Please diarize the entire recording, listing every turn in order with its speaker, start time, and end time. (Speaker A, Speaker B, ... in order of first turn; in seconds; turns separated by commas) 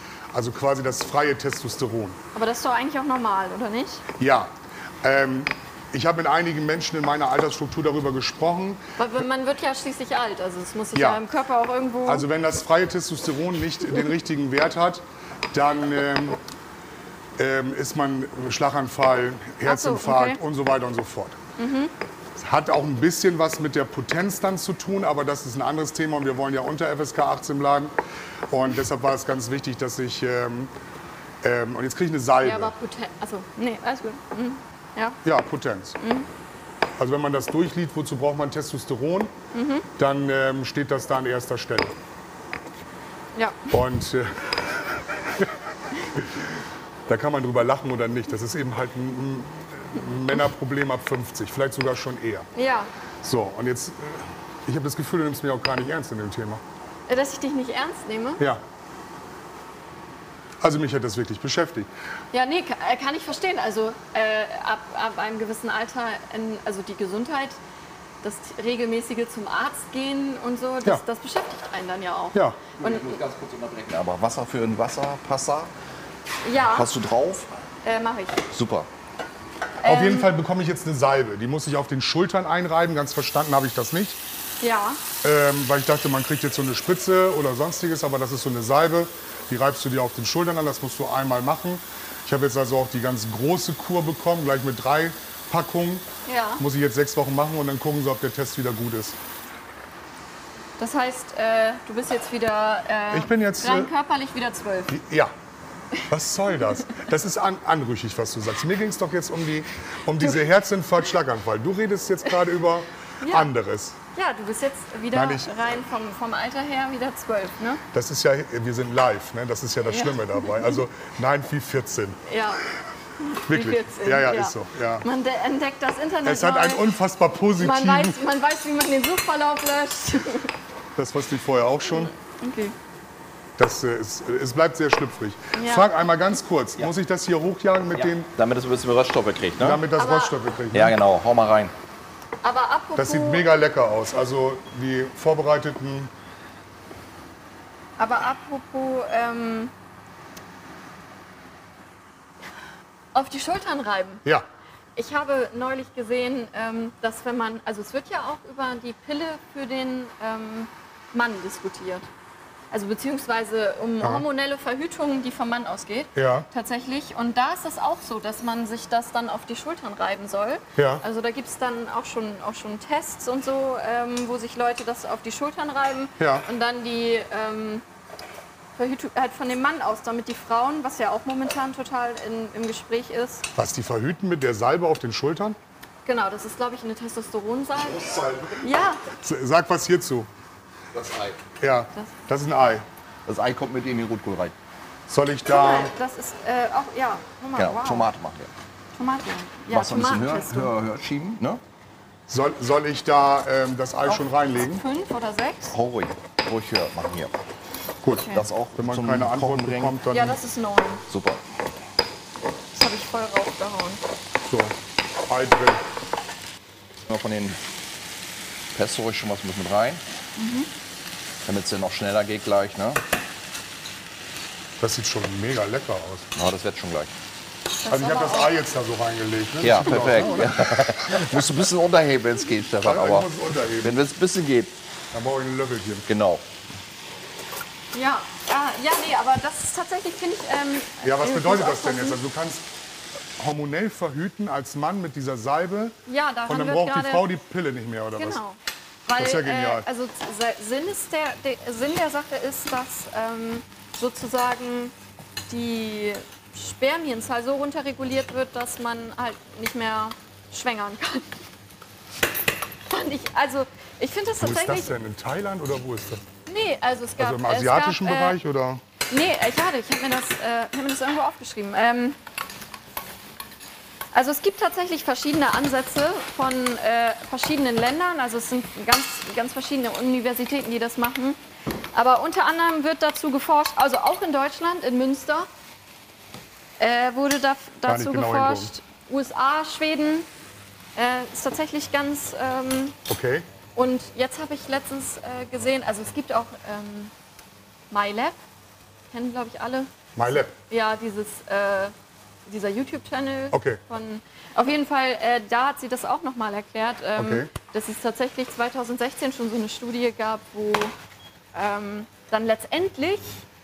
Speaker A: 0.3-2.2, Speaker B: 2.3-4.0, Speaker A: 4.2-8.8, Speaker B: 9.0-12.2, Speaker A: 10.9-11.2, Speaker A: 12.1-16.4, Speaker A: 17.4-21.4, Speaker B: 19.6-20.4, Speaker B: 21.6-21.9, Speaker A: 22.4-27.9, Speaker A: 28.5-30.7, Speaker A: 31.4-32.7, Speaker B: 32.4-35.2, Speaker A: 35.2-36.0, Speaker B: 36.0-36.3, Speaker A: 37.0-39.3, Speaker B: 39.5-39.9, Speaker A: 40.0-42.0, Speaker B: 43.4-43.7, Speaker A: 43.7-45.5, Speaker A: 46.1-46.5, Speaker A: 47.1-52.5, Speaker B: 52.5-52.9, Speaker A: 53.2-56.6, Speaker B: 57.1-58.4, Speaker A: 60.6-61.9, Speaker B: 62.3-67.6, Speaker B: 68.2-73.2, Speaker A: 72.3-72.6, Speaker C: 72.8-75.7, Speaker B: 76.4-76.9, Speaker C: 76.7-77.5, Speaker B: 77.8-78.4, Speaker C: 78.5-78.9, Speaker B: 79.8-80.3, Speaker A: 79.8-84.2, Speaker B: 84.6-85.0, Speaker A: 85.2-96.1, Speaker B: 96.3-96.6, Speaker A: 96.6-99.2, Speaker B: 100.8-105.0, Speaker A: 103.1-103.9, Speaker A: 104.9-105.3, Speaker A: 106.1-114.0, Speaker B: 113.2-113.5, Speaker B: 114.2-117.8, Speaker A: 115.1-115.5, Speaker A: 117.9-122.2, Speaker B: 119.9-120.7, Speaker B: 122.3-122.6, Speaker B: 123.2-126.9, Speaker A: 123.5-125.1, Speaker A: 126.2-128.2, Speaker B: 127.6-130.5, Speaker A: 131.0-132.1, Speaker B: 132.3-132.8, Speaker A: 133.6-138.3, Speaker B: 135.5-135.9, Speaker C: 137.9-139.8, Speaker A: 139.6-141.0, Speaker B: 140.0-140.3, Speaker C: 140.7-141.7, Speaker B: 142.4-143.4, Speaker A: 143.0-146.1, Speaker B: 148.0-149.7, Speaker B: 153.1-154.2, Speaker B: 155.0-162.1, Speaker B: 162.7-177.8, Speaker A: 166.2-166.5, Speaker A: 170.8-171.0, Speaker A: 176.2-176.5, Speaker B: 178.8-183.5, Speaker A: 183.6-185.6, Speaker B: 186.1-189.0, Speaker C: 187.8-188.6, Speaker A: 189.2-190.3, Speaker C: 190.9-191.4, Speaker A: 191.6-192.9, Speaker C: 193.3-194.5, Speaker A: 195.1-195.9, Speaker B: 195.5-198.1, Speaker C: 197.6-198.5, Speaker B: 199.0-200.7, Speaker C: 199.7-201.6, Speaker A: 202.3-204.8, Speaker B: 204.1-205.8, Speaker C: 205.7-207.3, Speaker A: 208.0-210.4, Speaker C: 208.3-210.0, Speaker B: 210.1-211.0, Speaker C: 211.1-211.4, Speaker B: 212.7-214.0, Speaker A: 214.4-214.8, Speaker A: 215.3-215.8, Speaker C: 217.1-217.6, Speaker C: 218.7-220.0, Speaker B: 220.4-220.7, Speaker C: 221.5-223.0, Speaker A: 224.8-226.3, Speaker C: 226.4-227.1, Speaker B: 227.8-228.6, Speaker A: 227.9-231.4, Speaker C: 229.6-233.3, Speaker A: 232.8-234.0, Speaker C: 233.8-234.8, Speaker A: 235.1-236.1, Speaker C: 236.1-236.4, Speaker B: 237.9-242.2, Speaker A: 241.0-242.7, Speaker A: 243.4-246.0, Speaker B: 246.1-247.3, Speaker A: 246.5-248.4, Speaker B: 248.2-254.9, Speaker A: 249.2-249.9, Speaker B: 255.5-261.4, Speaker B: 262.9-264.9, Speaker A: 264.4-266.2, Speaker B: 266.5-268.4, Speaker A: 267.2-268.8, Speaker B: 269.1-272.2, Speaker B: 274.1-281.4, Speaker B: 281.9-285.5, Speaker B: 286.8-290.3, Speaker A: 287.9-288.7, Speaker B: 290.9-293.0, Speaker A: 293.1-293.5, Speaker B: 293.8-297.1, Speaker B: 297.9-298.4, Speaker B: 299.1-301.9, Speaker A: 300.2-300.5, Speaker B: 302.5-310.9, Speaker A: 303.5-303.8, Speaker A: 307.2-307.5, Speaker B: 311.5-313.4